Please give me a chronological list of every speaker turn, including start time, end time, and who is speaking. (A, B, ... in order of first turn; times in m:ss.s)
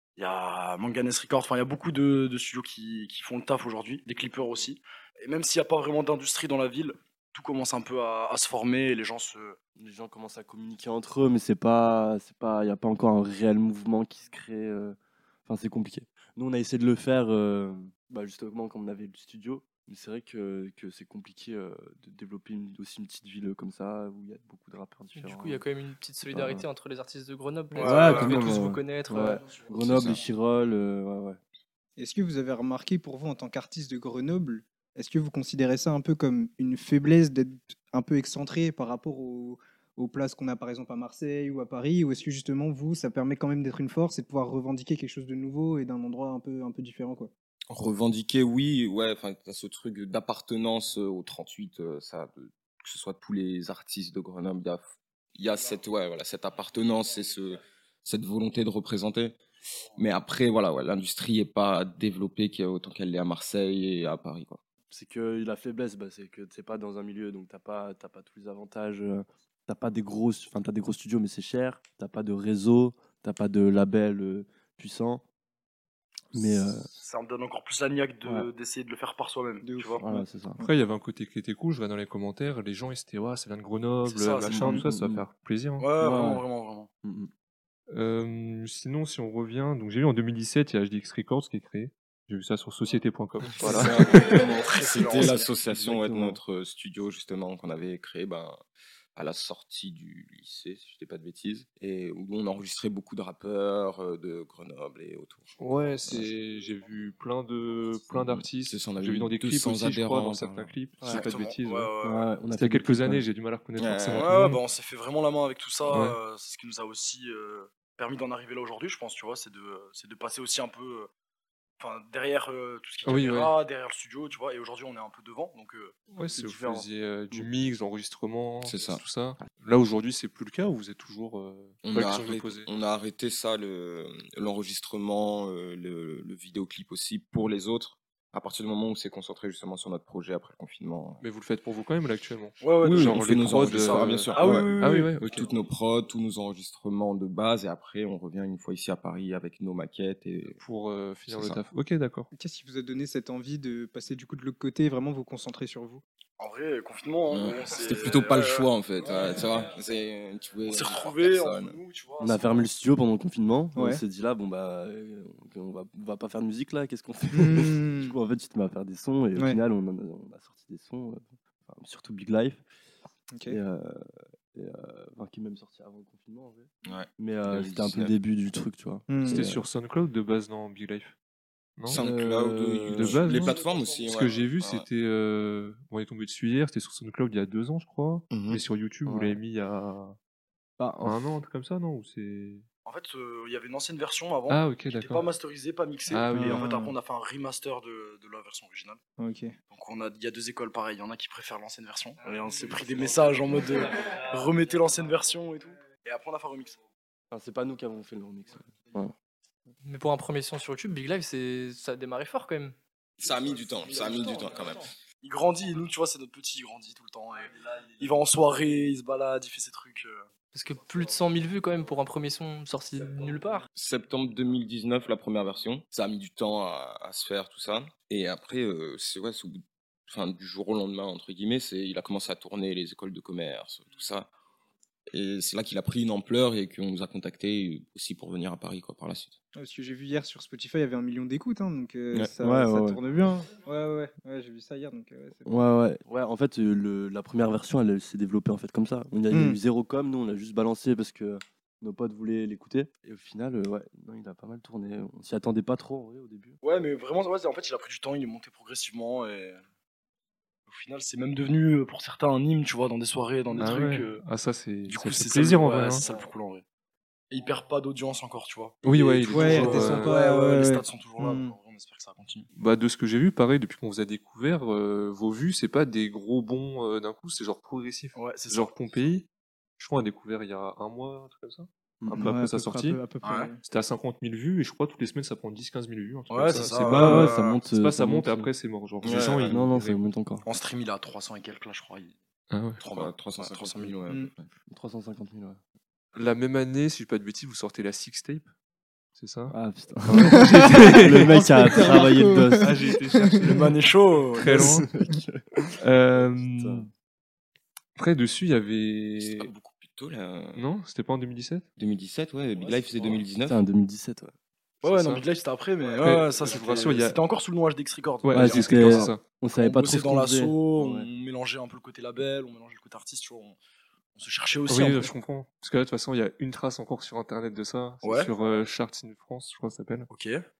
0:00.2-0:09.6 A
0:09.8-0:25.6 B
0:25.2-0:29.6 C
0:26.3-0:26.6 B
0:27.7-0:28.4 A
0:27.8-0:31.4 B
0:29.8-0:30.2 D
0:32.0-0:47.3 E
0:47.7-0:54.8 D
0:55.4-0:59.4 D
1:00.0-1:04.6 D
1:04.9-1:15.2 B
1:16.3-1:16.9 B
1:16.4-1:20.0 A
1:19.6-1:20.7 E
1:20.0-1:20.6 B
1:20.6-1:25.9 F
1:24.1-1:24.6 A
1:24.5-1:25.2 B
1:25.8-1:26.9 A
1:26.0-1:26.4 B
1:27.0-1:27.3 B
1:27.9-1:34.5 F
1:33.6-1:35.5 A
1:33.6-1:38.6 D
1:35.2-1:36.4 B
1:39.2-1:45.5 D
1:45.6-1:51.9 F
1:46.0-1:46.3 D
1:48.1-1:50.7 D
1:51.0-1:51.3 B
1:51.0-1:52.3 A
1:52.0-1:53.2 B
1:52.6-1:54.6 F
1:53.8-1:54.3 D
1:54.1-2:01.1 A
1:55.9-1:56.2 F
2:01.8-2:06.8 A
2:03.0-2:03.5 F
2:06.2-2:12.7 F
2:08.6-2:09.0 D
2:11.8-2:21.2 D
2:21.2-2:25.5 F
2:22.6-2:25.5 A
2:22.8-2:24.8 D
2:25.3-2:30.6 D
2:30.6-2:32.3 F
2:31.3-2:31.6 D
2:32.3-2:36.0 E
2:36.4-2:39.7 A
2:37.3-2:41.8 D
2:40.6-2:42.7 A
2:42.2-2:52.6 B
2:43.8-2:44.0 E
2:47.3-2:48.2 E
2:49.4-2:49.6 E
2:53.3-2:53.6 E
2:53.5-2:59.6 B
2:56.8-2:58.1 D
2:59.1-2:59.4 E
2:59.3-3:01.2 F
3:01.8-3:02.0 F
3:01.9-3:04.9 D
3:02.0-3:03.2 B
3:02.9-3:03.5 F
3:03.3-3:04.4 A
3:04.1-3:10.2 F
3:08.3-3:08.6 D
3:09.1-3:09.4 B
3:10.8-3:11.3 B
3:11.0-3:12.7 F
3:12.8-3:19.0 A
3:14.5-3:15.3 F
3:16.1-3:16.6 F
3:16.4-3:17.0 E
3:19.2-3:19.6 E
3:19.7-3:26.8 A
3:27.3-3:29.1 B
3:29.8-3:32.8 C
3:33.2-3:34.9 D
3:33.8-3:40.3 A
3:40.5-3:43.7 C
3:43.8-3:54.3 D
3:55.1-3:59.4 D
3:59.6-4:05.5 E
4:02.4-4:03.0 B
4:05.5-4:16.6 B
4:09.3-4:09.6 E
4:16.6-4:19.6 A
4:20.7-4:24.2 A
4:23.6-4:26.0 F
4:24.9-4:26.6 A
4:27.3-4:32.5 A
4:28.8-4:30.2 F
4:29.3-4:31.6 E
4:32.6-4:39.3 F
4:38.1-4:38.8 A
4:39.8-4:43.0 F
4:42.0-4:42.3 B
4:42.1-4:43.6 E
4:43.2-4:43.5 A
4:43.6-4:49.6 F
4:46.3-4:47.6 A
4:46.8-4:48.5 B
4:49.0-4:50.0 D
4:49.5-4:50.5 B
4:50.4-4:52.2 A
4:52.5-4:52.8 F
4:52.8-4:54.0 A
4:52.9-4:54.5 D
4:54.7-4:55.6 B
4:56.1-4:58.5 F
4:59.2-4:59.5 F
4:59.5-5:02.8 B
5:00.0-5:02.0 F
5:00.2-5:03.4 E
5:02.6-5:04.9 F
5:03.4-5:04.7 A
5:04.5-5:06.9 B
5:05.8-5:06.9 F
5:08.0-5:09.5 F
5:09.2-5:10.7 D
5:10.6-5:11.6 F
5:11.8-5:13.6 D
5:12.5-5:13.2 A
5:13.5-5:14.3 B
5:14.8-5:15.3 F
5:14.8-5:23.6 A
5:16.0-5:17.2 F
5:18.2-5:19.2 F
5:18.3-5:21.1 B
5:24.2-5:25.1 A
5:24.7-5:30.1 F
5:28.0-5:28.3 A
5:30.1-5:30.4 A